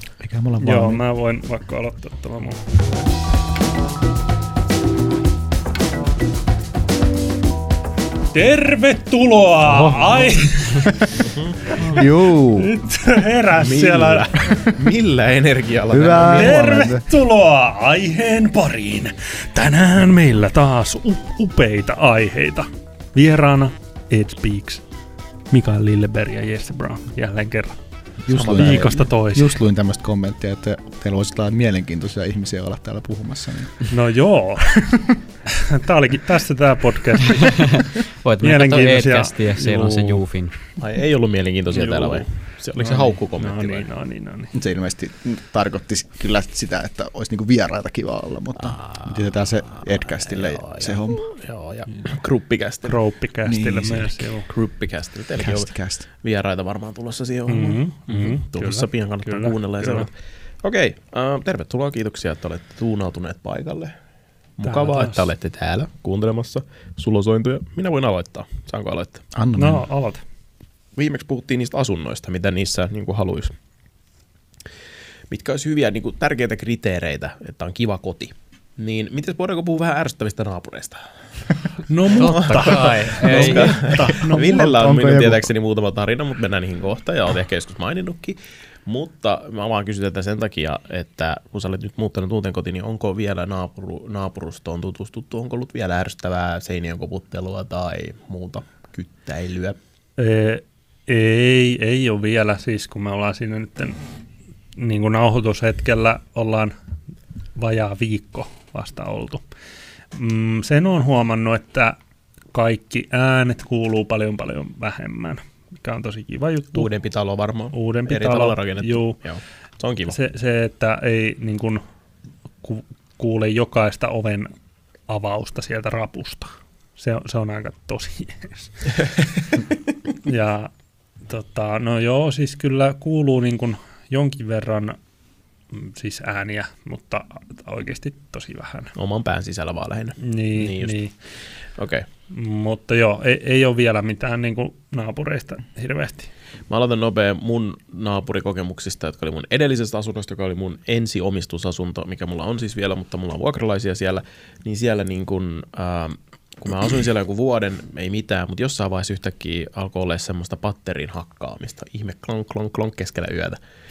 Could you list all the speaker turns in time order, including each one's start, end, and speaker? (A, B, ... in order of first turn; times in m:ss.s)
0:00.2-0:01.0 A
0:00.6-0:02.8 B
0:08.3-0:11.2 B
0:09.6-0:10.3 A
0:11.2-0:11.7 C
0:11.8-0:12.8 A
0:12.6-0:14.5 B
0:13.5-0:16.6 C
0:15.9-0:17.0 A
0:16.3-0:24.9 B
0:25.5-0:27.8 B
0:28.2-0:33.9 A
0:28.3-0:29.0 C
0:28.5-0:29.6 B
0:33.9-0:35.2 B
0:35.7-0:40.2 B
0:38.2-0:40.6 D
0:40.8-0:43.8 C
0:41.7-0:44.5 B
0:44.5-0:51.3 A
0:48.6-0:53.0 C
0:52.8-0:54.5 B
0:53.4-0:54.3 A
0:54.5-1:03.9 C
0:55.4-0:56.0 A
0:57.5-1:00.1 B
1:04.6-1:09.2 C
1:04.6-1:05.3 B
1:09.3-1:09.8 A
1:09.6-1:10.2 B
1:10.9-1:13.5 C
1:15.3-1:21.3 C
1:21.9-1:24.6 B
1:22.1-1:24.0 D
1:22.1-1:39.8 C
1:24.1-1:25.5 A
1:40.2-1:44.0 B
1:44.8-1:46.7 B
1:47.5-1:49.4 B
1:50.1-1:52.0 B
1:52.5-1:56.9 B
1:56.7-2:00.2 C
1:57.7-1:59.2 B
2:00.1-2:01.8 B
2:02.6-2:04.5 B
2:05.1-2:09.0 B
2:10.2-2:10.7 B
2:11.2-2:15.0 B
2:15.7-2:18.9 B
2:18.9-2:22.0 C
2:20.2-2:21.1 B
2:22.3-2:26.3 B
2:26.7-2:43.6 C